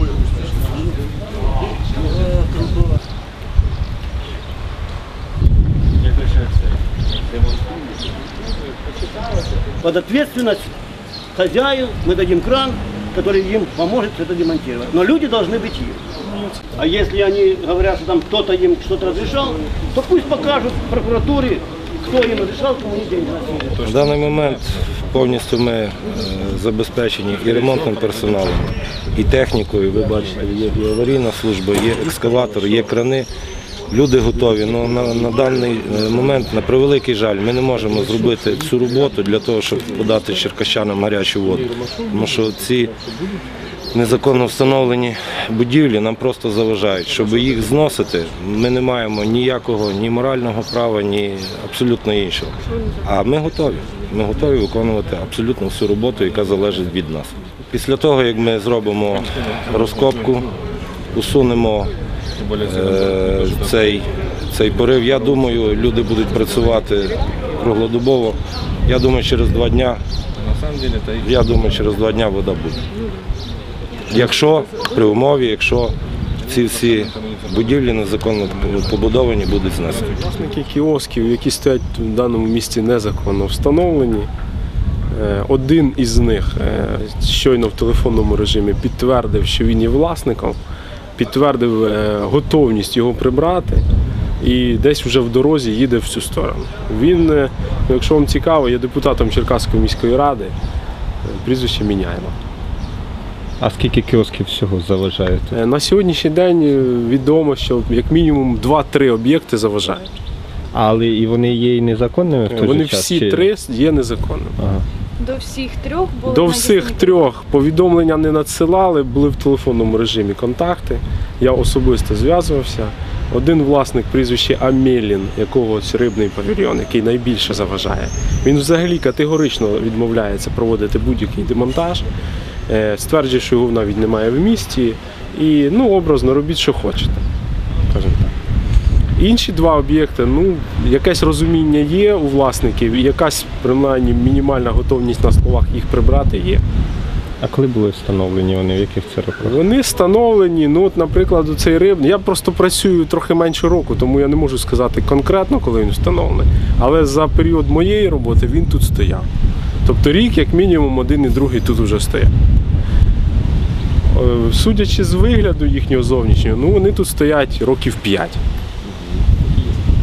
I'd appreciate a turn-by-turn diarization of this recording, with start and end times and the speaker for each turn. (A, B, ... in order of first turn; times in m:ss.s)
0:09.8-0:10.7 A
0:11.3-0:16.2 A
0:16.7-0:23.6 A
0:23.7-0:33.3 B
0:33.9-0:43.0 B
0:43.9-1:00.5 B
1:01.1-1:01.9 B
1:02.5-1:10.0 B
1:10.6-1:12.8 B
1:14.1-1:20.1 B
1:20.1-1:24.3 C
1:25.1-1:30.6 C
1:31.2-1:33.8 C
1:34.4-1:40.6 C
1:41.2-1:42.4 C
1:43.6-1:45.6 D
1:45.5-1:50.1 C
1:50.7-1:53.5 D
1:52.5-1:54.6 C
1:54.6-1:54.8 D
1:55.2-1:57.3 E
1:56.2-2:12.1 C
2:12.7-2:17.2 C
2:17.9-2:18.2 C
2:19.2-2:26.6 C
2:27.4-2:29.6 D
2:29.4-2:39.3 C
2:39.8-2:42.3 C
2:44.1-2:48.4 C